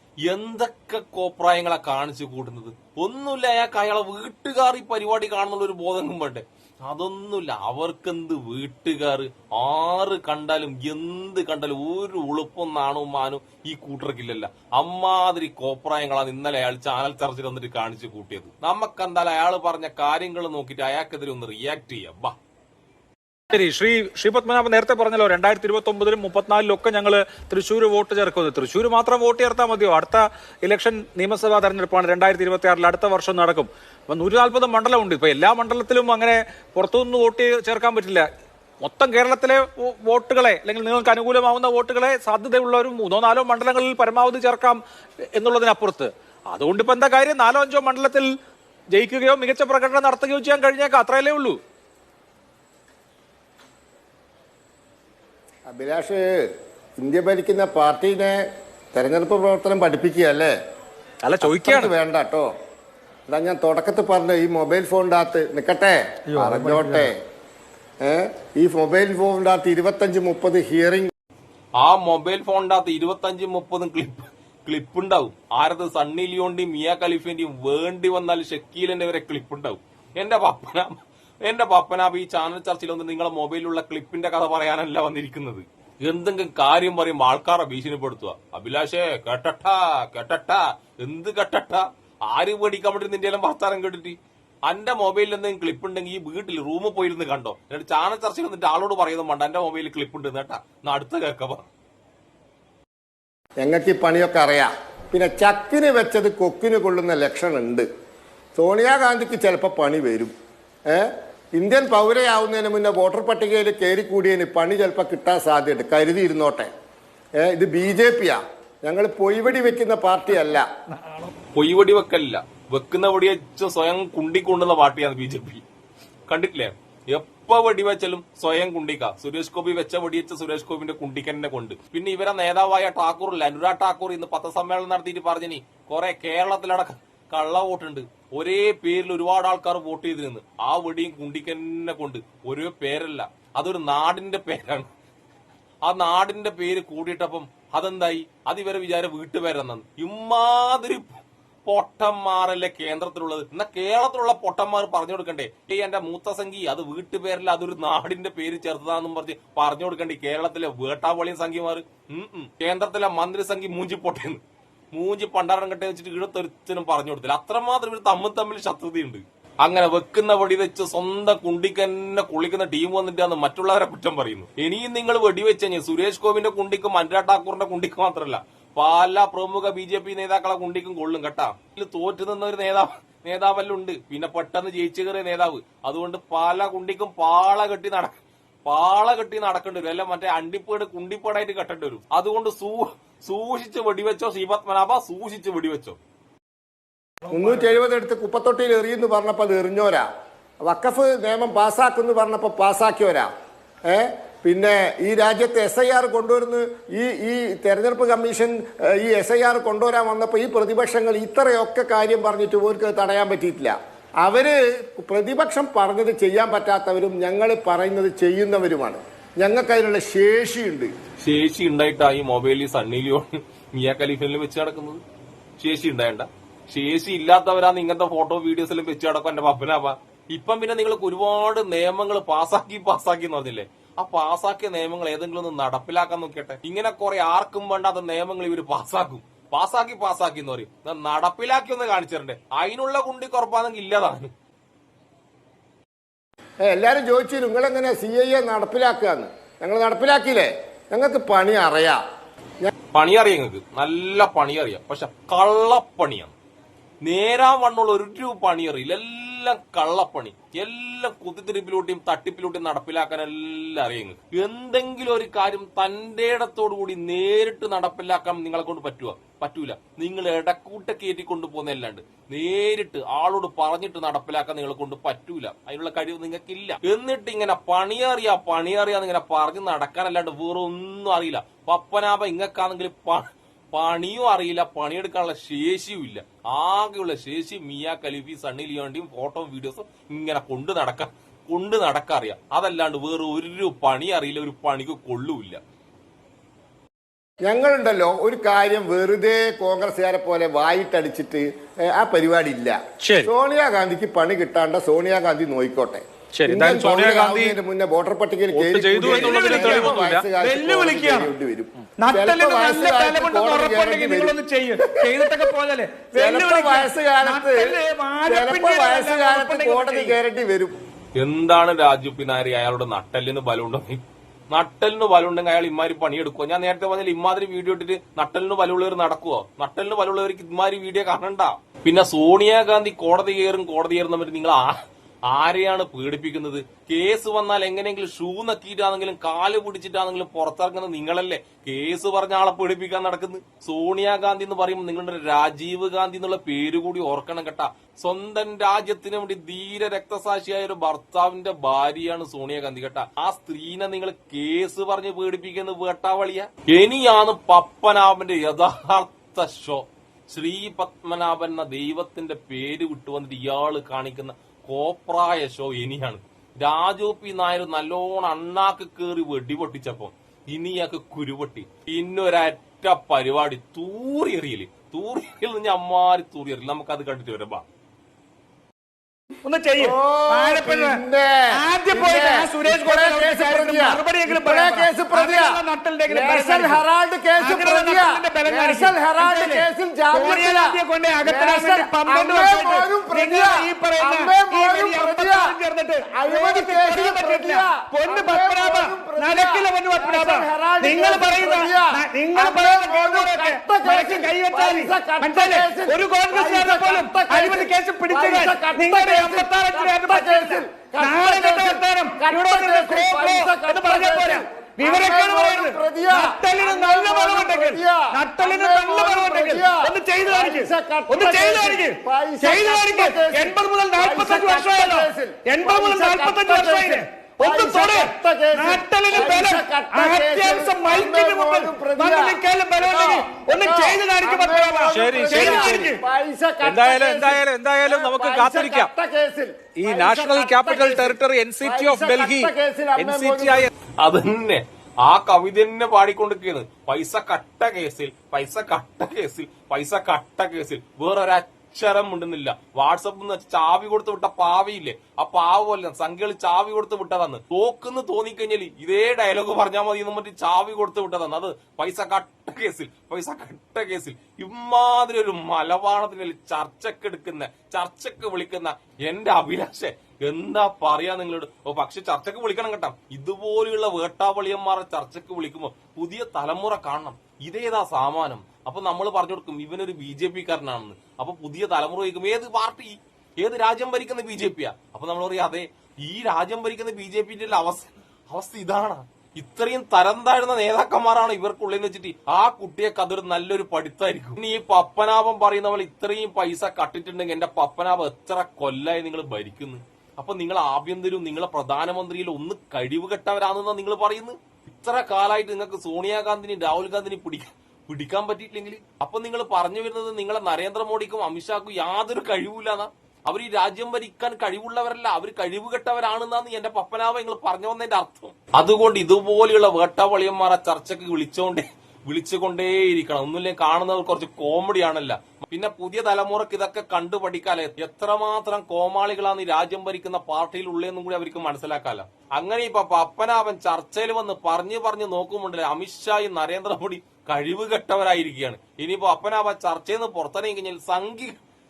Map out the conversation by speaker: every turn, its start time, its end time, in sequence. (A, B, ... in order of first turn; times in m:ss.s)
0:00.2-0:22.3 A
0:23.5-0:38.3 B
0:38.8-0:44.8 B
0:45.3-0:48.3 B
0:48.9-0:51.6 B
0:55.7-0:56.2 C
0:57.0-1:00.5 C
1:01.2-1:01.9 B
1:01.4-1:02.5 C
1:03.3-1:07.2 C
1:06.4-1:07.1 B
1:08.0-1:11.1 C
1:11.8-1:41.7 A
1:43.6-1:47.8 C
1:48.6-1:50.3 C
1:50.9-1:56.7 C
1:57.4-2:00.6 C
2:01.5-2:05.6 A
2:06.3-2:24.9 A
2:25.8-2:44.4 A
2:44.9-3:16.0 A
3:17.3-3:20.0 C
3:20.6-3:23.3 C
3:23.9-3:40.9 C
3:41.2-3:45.0 A
3:45.6-4:04.3 A
4:06.6-4:12.0 C
4:12.9-4:16.3 A
4:17.0-4:55.6 A
4:57.4-5:15.4 C
5:03.0-5:03.3 B
5:06.3-5:07.6 B
5:08.5-5:10.3 B
5:08.9-5:11.3 D
5:12.0-5:20.2 D
5:16.1-5:20.7 C
5:21.2-5:34.8 A
5:35.3-6:17.6 A
6:19.4-6:26.8 D
6:19.8-6:35.6 C
6:27.4-7:16.0 D
6:36.1-7:23.7 C
7:14.9-7:15.9 B
7:16.6-7:18.9 B
7:19.8-7:23.7 B
7:24.0-9:01.4 A